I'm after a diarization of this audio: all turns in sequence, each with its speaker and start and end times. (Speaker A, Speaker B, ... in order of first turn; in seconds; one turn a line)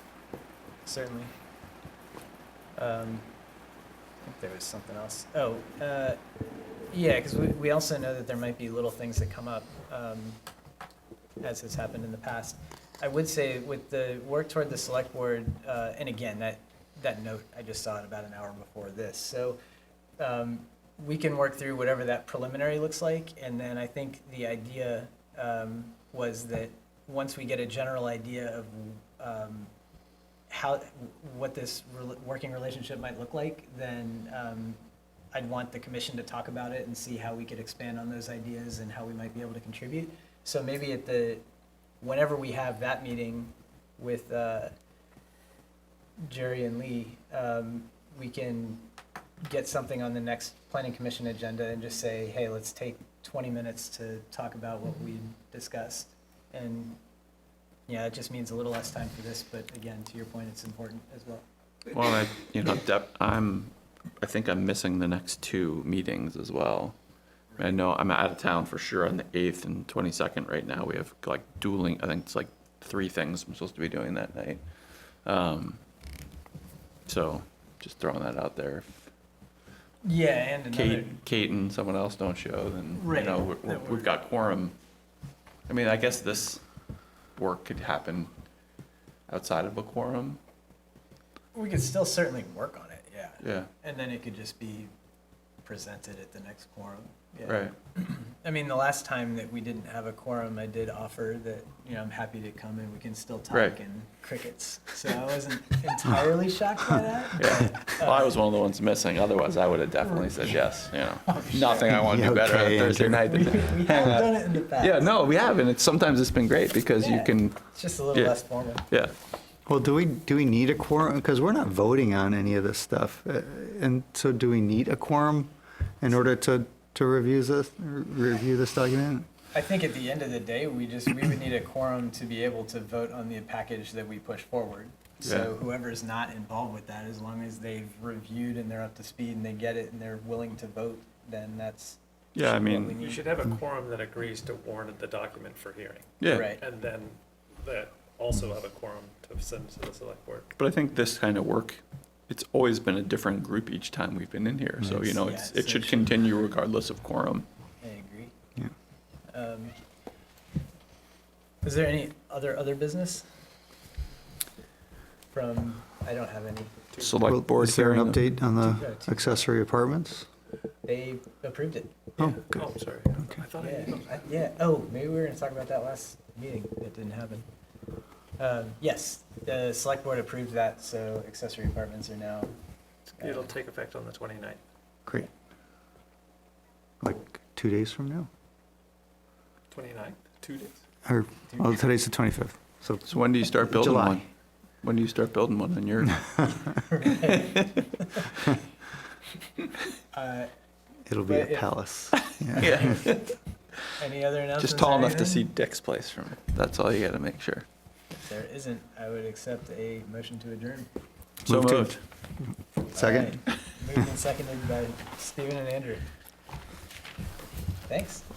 Speaker A: 0.8-1.3
Speaker A: 2.8-3.3
Speaker A: 4.2-6.2
Speaker A: 6.9-10.4
Speaker A: 11.4-19.6
Speaker A: 20.2-29.7
Speaker A: 30.5-34.8
Speaker A: 35.3-41.4
Speaker A: 42.0-44.7
Speaker A: 46.3-48.9
Speaker A: 49.4-57.0
Speaker A: 57.9-61.4
Speaker B: 61.9-66.9
Speaker B: 67.6-74.6
Speaker B: 75.2-75.8
Speaker B: 77.1-79.0
Speaker A: 80.0-81.2
Speaker B: 80.7-84.8
Speaker A: 82.9-84.1
Speaker B: 85.7-86.6
Speaker B: 87.4-88.3
Speaker B: 89.3-90.4
Speaker A: 91.5-94.9
Speaker B: 93.4-93.7
Speaker A: 95.6-108.3
Speaker B: 97.5-97.7
Speaker B: 103.5-103.8
Speaker B: 107.4-117.6
Speaker A: 110.0-112.0
Speaker C: 111.9-113.2
Speaker A: 113.2-115.1
Speaker A: 117.0-118.8
Speaker C: 119.7-129.2
Speaker A: 129.5-143.3
Speaker B: 135.2-135.5
Speaker B: 142.3-143.0
Speaker D: 142.9-150.5
Speaker B: 146.2-146.5
Speaker A: 146.2-146.6
Speaker B: 150.6-157.5
Speaker C: 154.8-155.1
Speaker A: 155.2-156.2
Speaker A: 157.8-158.3
Speaker A: 159.3-159.8
Speaker A: 161.6-163.2
Speaker A: 165.3-166.8
Speaker D: 166.9-167.2
Speaker B: 167.0-168.3
Speaker C: 167.2-170.2
Speaker A: 168.7-169.4
Speaker A: 170.8-172.2
Speaker C: 172.2-172.7
Speaker D: 172.4-174.3
Speaker A: 173.6-177.5
Speaker A: 178.4-182.5
Speaker D: 183.1-184.6
Speaker A: 183.2-183.4
Speaker C: 187.0-188.3
Speaker D: 189.7-190.8
Speaker C: 191.0-193.0
Speaker B: 193.1-194.3
Speaker C: 193.6-194.2
Speaker B: 194.8-196.5
Speaker A: 196.8-198.2
Speaker B: 197.2-197.8
Speaker A: 200.1-200.5
Speaker C: 201.1-202.9
Speaker A: 201.2-201.7
Speaker B: 202.3-203.3
Speaker A: 202.7-203.1
Speaker A: 204.0-205.5
Speaker B: 204.6-207.7
Speaker A: 208.2-210.9
Speaker C: 211.5-212.0
Speaker B: 211.5-212.0
Speaker A: 212.9-216.0
Speaker C: 212.9-213.4
Speaker A: 217.9-218.2